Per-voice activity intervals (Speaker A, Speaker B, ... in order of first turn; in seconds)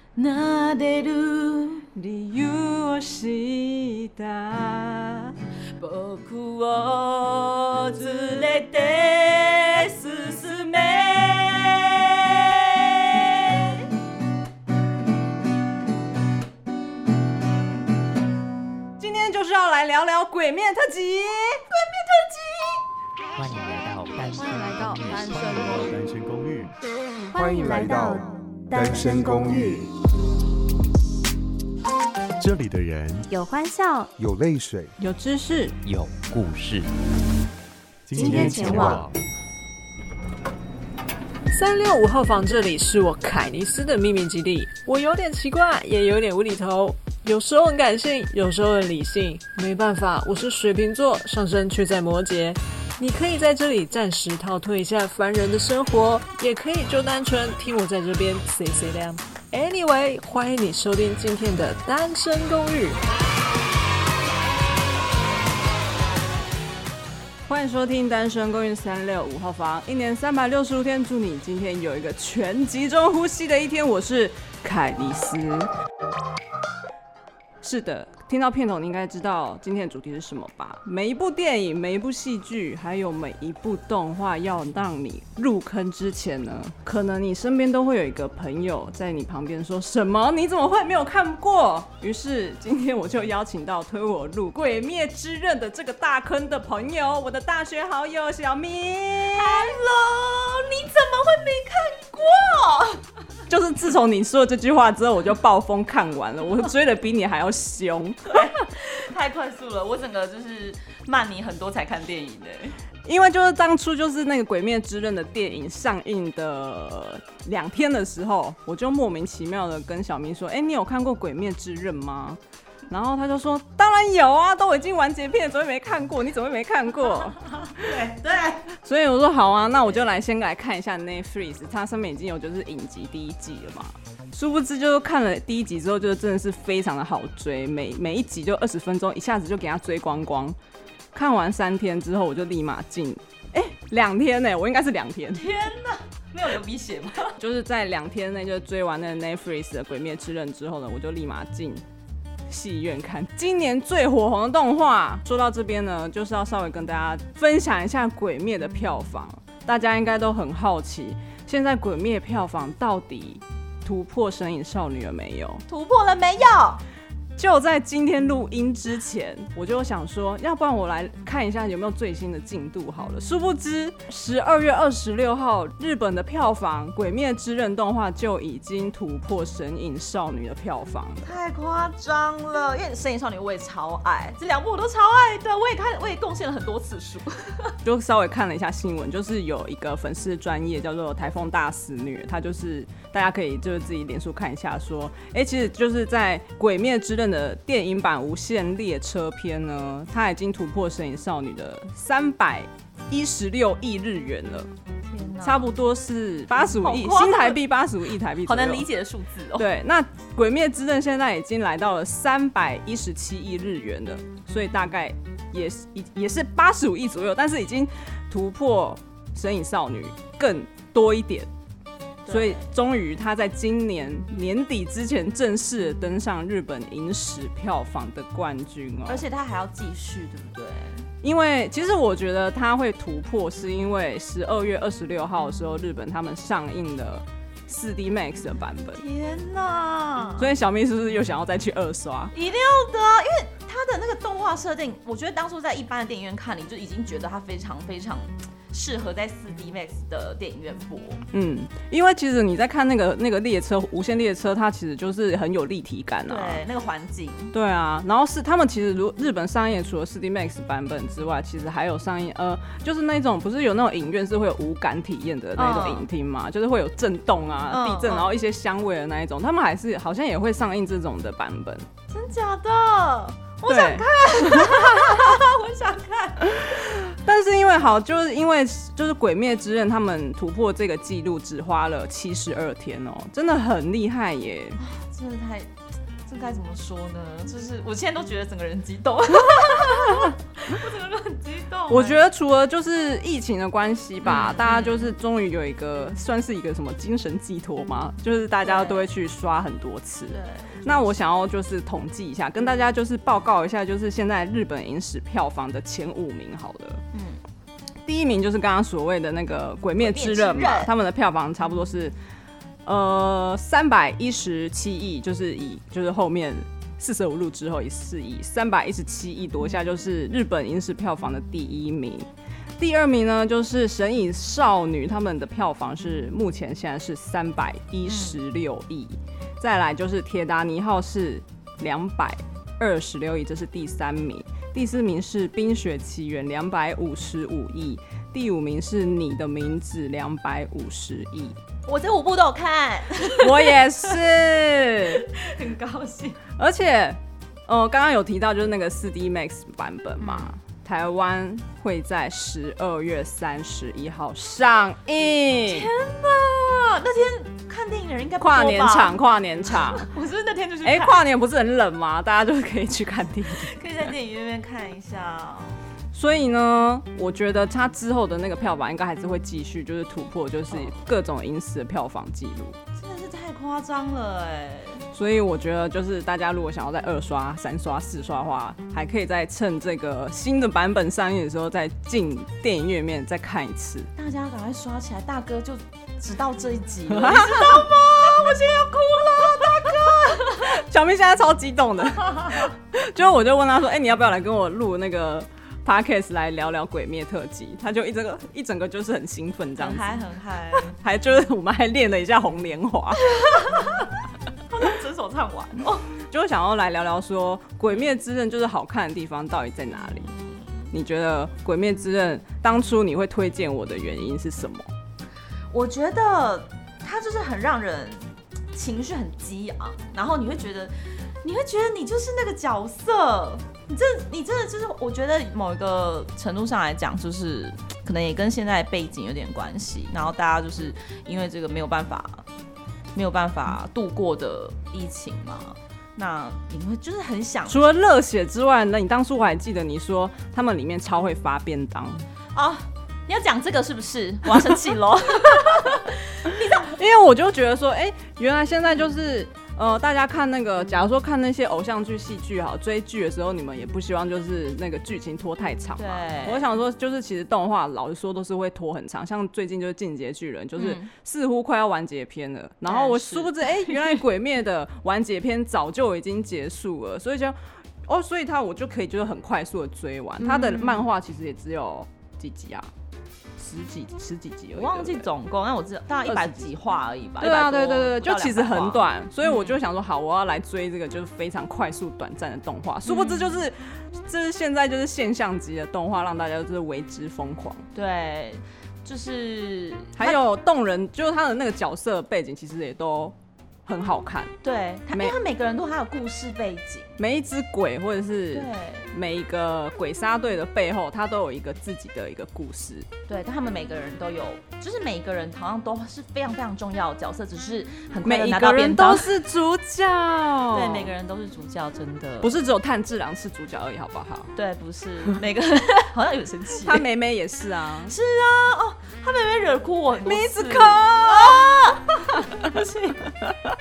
Speaker A: 0.1-1.9, 5.8-13.8, 99.3-103.0, 108.3-112.8, 127.6-128.7, 145.3-147.4, 165.7-166.8, 181.2-187.8, 205.0-205.7, 206.5-207.6, 208.4-209.7, 222.2-222.7, 229.1-231.1, 238.9-240.5, 242.3-251.2, 256.3-257.5, 265.6-266.1, 267.7-268.3, 272.1-276.7, 284.8-285.7, 286.2-292.2, 294.2-295.1, 298.6-299.1, 300.3-300.9, 307.1-307.4, 310.0-310.9, 328.1-328.4, 341.9-343.8, 345.1-346.4, 350.2-350.5, 355.7-361.2, 363.6-365.8, 372.9-375.1, 384.2-390.8, 399.8-400.9, 403.2-404.1, 404.7-406.1, 410.3-410.8, 415.7-432.4, 433.1-437.9, 442.5-447.0, 456.0-456.7, 460.8-461.1, 462.9-464.0, 470.4-471.1, 474.7-479.8, 483.1-483.6, 487.9-490.4, 494.6-497.2, 498.5-499.1, 503.3-509.3, 510.7-512.6, 514.5-517.1, 518.1-523.2
Speaker B: 1.9-5.3, 10.0-11.1, 19.0-22.8, 35.0-35.8, 38.1-39.0, 67.5-75.7, 77.6-99.8, 103.5-108.4, 113.0-127.9, 128.7-140.6, 141.1-145.5, 147.4-151.8, 152.5-165.6, 167.4-181.3, 187.8-204.7, 205.4-208.9, 209.6-221.5, 222.3-229.2, 231.2-239.0, 240.4-242.3, 251.3-256.6, 257.5-271.9, 273.7-275.4, 276.4-284.8, 289.9-290.3, 291.9-307.0, 308.1-312.2, 312.9-341.6, 343.3-345.2, 346.6-355.9, 358.4-360.1, 360.8-363.7, 366.1-372.8, 375.1-384.1, 387.1-387.9, 389.8-400.2, 400.7-403.7, 406.2-410.3, 410.9-414.9, 437.7-442.2, 446.9-472.9, 473.6-475.3, 476.2-476.7, 477.4-487.9, 490.2-494.5, 495.1-495.4, 497.2-503.1, 508.2-511.1, 512.4-514.5, 516.7-518.1, 520.2-522.7
Speaker C: 23.4-25.5, 35.8-36.9
Speaker D: 24.4-25.7, 27.3-29.8, 33.3-34.2, 38.1-39.0
Speaker E: 25.3-26.8, 32.4-33.3, 38.1-39.1
Speaker F: 27.3-29.7, 34.2-34.9
Speaker G: 41.5-63.0